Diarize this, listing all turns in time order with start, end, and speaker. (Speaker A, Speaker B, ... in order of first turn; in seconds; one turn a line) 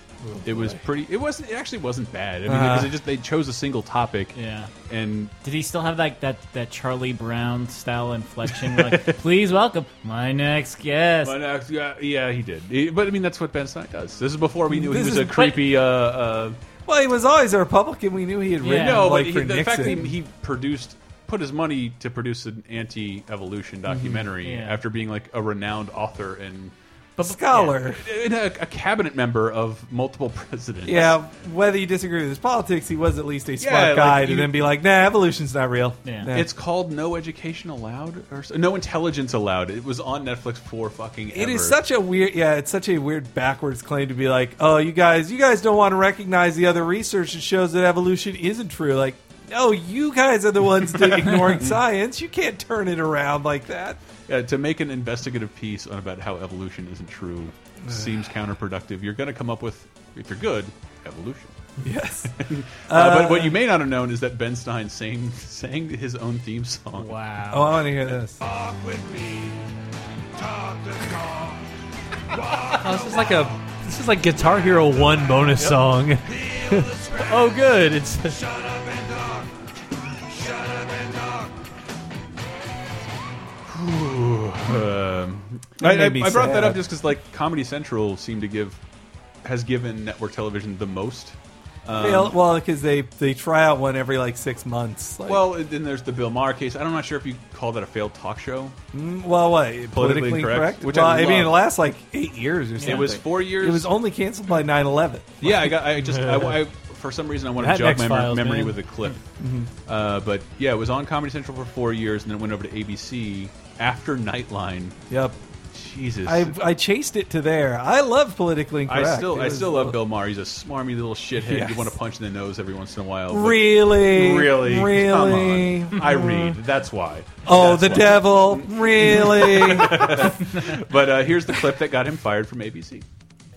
Speaker A: 0.2-0.8
Speaker B: 0.4-4.3
Speaker A: 2.4-3.0
Speaker C: 4.3-4.7
Speaker B: 4.9-5.3
Speaker C: 5.4-11.4
Speaker B: 8.7-9.2
Speaker B: 11.2-16.6
Speaker A: 14.7-15.5
Speaker A: 16.9-20.1
Speaker C: 18.6-19.1
Speaker B: 18.7-26.7
Speaker A: 23.9-24.3
Speaker C: 24.4-24.8
Speaker C: 27.2-27.8
Speaker A: 27.2-28.0
Speaker B: 27.9-31.2
Speaker A: 30.9-36.5
Speaker B: 33.6-34.5
Speaker B: 36.3-41.8
Speaker A: 41.3-54.0
Speaker B: 54.3-61.5
Speaker A: 57.8-58.1
Speaker A: 61.8-62.3
Speaker B: 62.3-67.1
Speaker A: 62.9-63.6
Speaker C: 67.0-67.7
Speaker A: 67.5-68.4
Speaker D: 72.8-78.5
Speaker B: 83.7-88.8
Speaker A: 85.8-86.8
Speaker B: 89.4-92.3
Speaker A: 92.0-95.5
Speaker B: 95.3-98.8
Speaker A: 98.9-105.6
Speaker B: 99.9-101.6
Speaker B: 102.8-103.9
Speaker B: 105.4-109.2
Speaker D: 105.9-106.6
Speaker D: 107.6-108.8
Speaker A: 109.4-109.7
Speaker B: 109.8-115.0
Speaker A: 115.1-115.4
Speaker B: 115.7-116.6
Speaker A: 116.2-120.0
Speaker B: 118.9-133.0
Speaker A: 121.4-121.9
Speaker A: 123.3-126.6
Speaker A: 127.5-130.3